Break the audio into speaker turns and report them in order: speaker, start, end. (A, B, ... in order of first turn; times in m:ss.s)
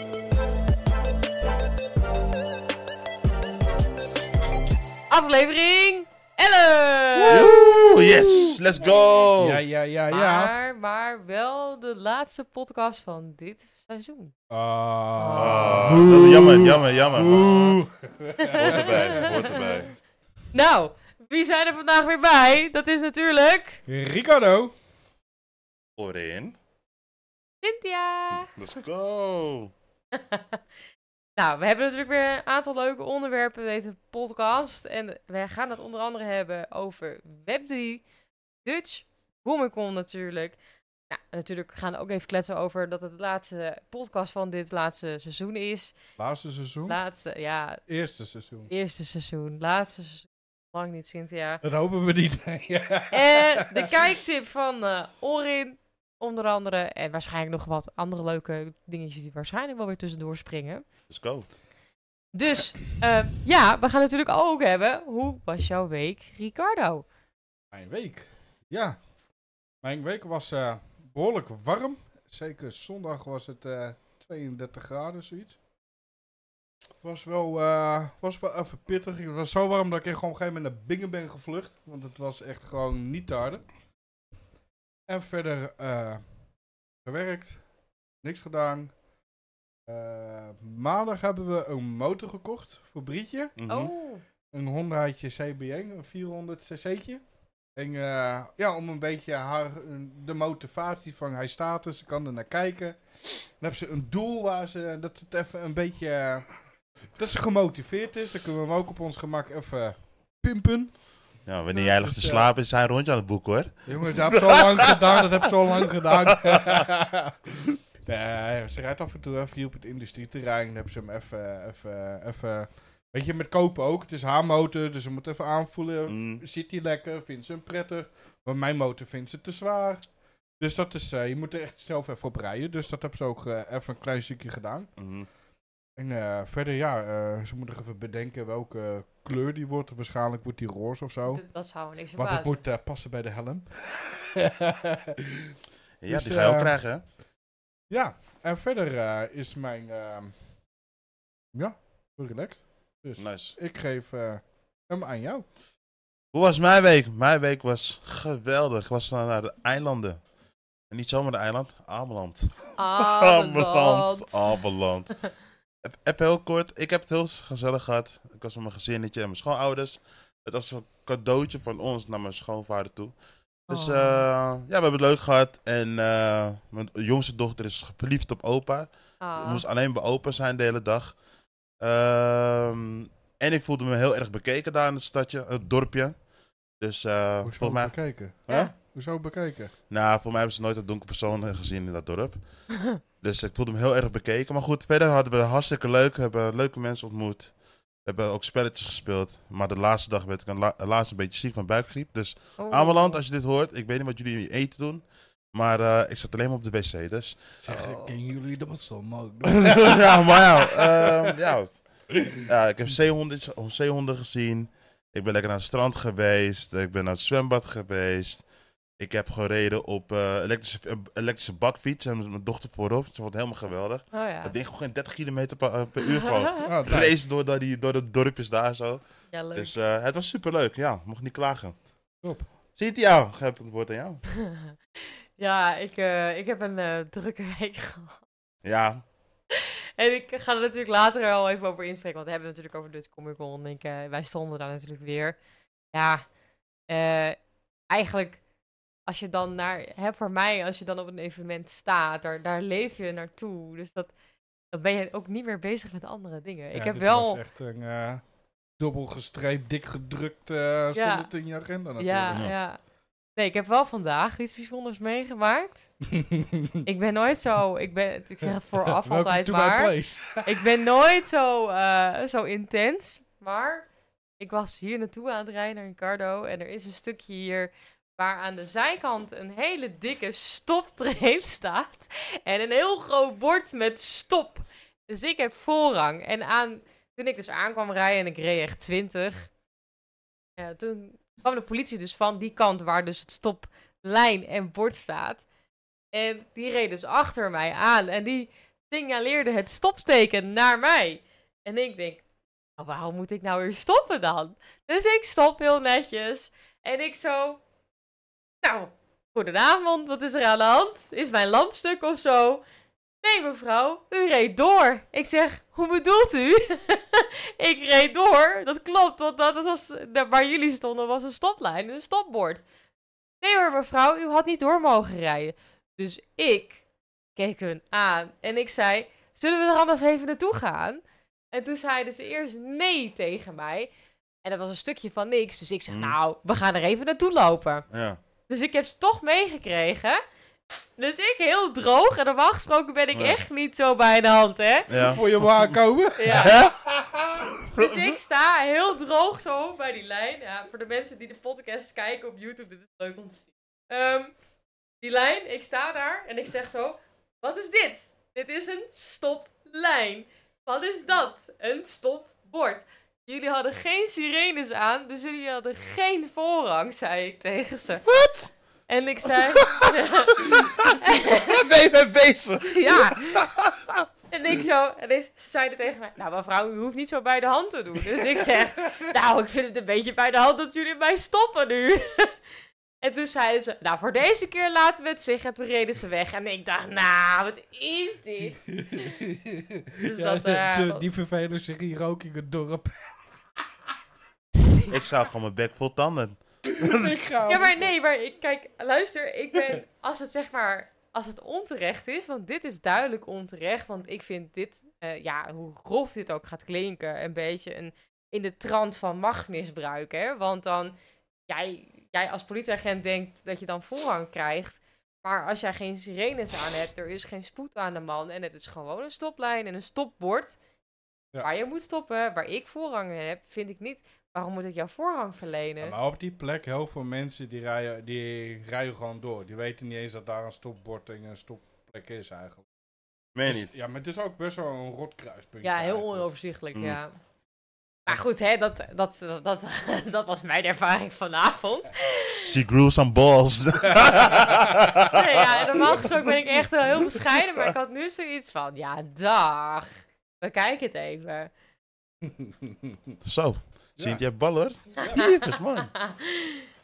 0:05.1-0:07.5 A
0:07.2-0:08.6 B
0:07.3-0:09.6 C
0:08.8-0:09.3 A
0:09.4-0:10.5 B
0:10.1-0:14.3 A
0:14.5-0:19.7 B
0:15.2-0:16.1 A
0:15.4-0:17.6 C
0:17.2-0:17.8 A
0:18.4-0:19.6 A
0:18.6-0:19.9 C
0:20.5-0:23.8 A
0:23.9-0:24.7 B
0:26.0-0:26.6 C
0:27.6-0:28.6 A
0:28.5-0:29.7 C
0:30.2-0:30.6 A
0:31.4-0:38.0 A
0:38.6-0:40.6 A
0:41.1-0:46.0 A
0:46.2-0:47.0 B
0:46.9-0:47.9 A
0:47.9-0:48.7 B
0:48.7-0:51.6 A
0:51.6-0:53.7 B
0:53.1-1:00.9 A
1:01.1-1:01.5 C
1:02.3-1:07.1 A
1:07.7-1:09.1 B
1:09.8-1:15.6 B
1:17.0-1:23.7 B
1:25.1-1:26.4 B
1:27.0-1:27.7 B
1:28.2-1:29.0 B
1:29.9-1:33.6 B
1:33.6-1:33.9 C
1:33.7-1:34.2 A
1:34.5-1:37.2 B
1:37.7-1:52.5 B
1:51.4-1:55.2 C
1:53.8-1:57.4 B
1:58.0-2:15.1 B
2:06.1-2:06.4 C
2:15.0-2:15.3 C
2:16.0-2:21.4 B
2:21.3-2:22.6 A
2:22.2-2:25.3 B
2:26.0-2:27.1 C
2:26.1-2:27.1 B
2:27.9-2:30.5 B
2:31.5-2:35.5 B
2:33.2-2:33.6 C
2:36.3-2:40.3 C
2:40.9-2:53.2 C
2:42.8-2:44.7 A
2:53.7-3:01.2 C
2:53.7-2:54.2 A
2:59.2-2:59.6 A
3:01.8-3:08.7 C
3:07.4-3:09.7 B
3:09.9-3:27.6 C
3:22.6-3:23.2 A
3:27.6-3:31.3 B
3:27.7-3:28.1 A
3:29.6-3:51.9 C
3:44.1-3:44.5 A
3:46.6-3:47.2 B
3:49.3-3:49.8 A
3:52.2-3:52.5 B
3:52.7-3:54.3 C
3:54.5-3:54.8 A
3:55.4-3:58.8 A
3:58.6-3:59.0 C
3:59.5-4:05.4 A
4:05.9-4:06.2 A
4:06.9-4:07.4 A
4:07.9-4:08.4 A
4:09.1-4:14.1 A
4:14.7-4:17.4 A
4:16.7-4:18.2 B
4:18.8-4:22.5 B
4:20.9-4:21.3 A
4:22.0-4:22.8 A
4:23.4-4:26.0 A
4:26.2-4:26.7 B
4:26.8-4:33.9 A
4:29.0-4:30.6 B
4:34.4-4:49.5 A
4:50.6-4:55.4 A
4:56.1-5:02.2 A
5:02.8-5:07.6 A
5:08.6-5:12.6 A
5:13.2-5:22.6 A
5:23.4-5:26.8 A
5:27.4-5:33.9 A
5:34.4-5:37.9 A
5:35.9-5:36.2 C
5:37.9-5:38.2 C
5:38.5-5:40.2 A
5:41.0-5:45.2 A
5:43.1-5:43.4 C
5:44.9-5:45.2 C
5:45.0-5:47.4 B
5:46.2-5:46.7 A
5:46.3-5:46.8 C
5:47.8-5:54.3 A
5:55.0-6:08.1 A
6:08.0-6:08.5 C
6:08.9-6:11.7 A
6:10.4-6:10.9 C
6:11.6-6:14.0 C
6:12.6-6:13.5 A
6:14.3-6:22.4 A
6:23.0-6:29.0 A
6:28.8-6:33.3 B
6:30.0-6:31.0 A
6:34.7-6:34.9 A
6:34.9-6:37.1 C
6:36.8-6:37.9 B
6:37.5-6:51.0 A
6:51.5-7:00.6 A
7:01.4-7:06.0 A
7:05.8-7:12.7 B
7:13.4-7:13.7 C
7:13.4-7:16.3 B
7:15.6-7:17.2 A
7:18.1-7:22.5 A
7:22.4-7:25.2 C
7:25.1-7:31.5 A
7:32.4-7:32.7 B
7:33.2-7:36.1 C
7:34.0-7:35.3 B
7:35.0-7:36.7 A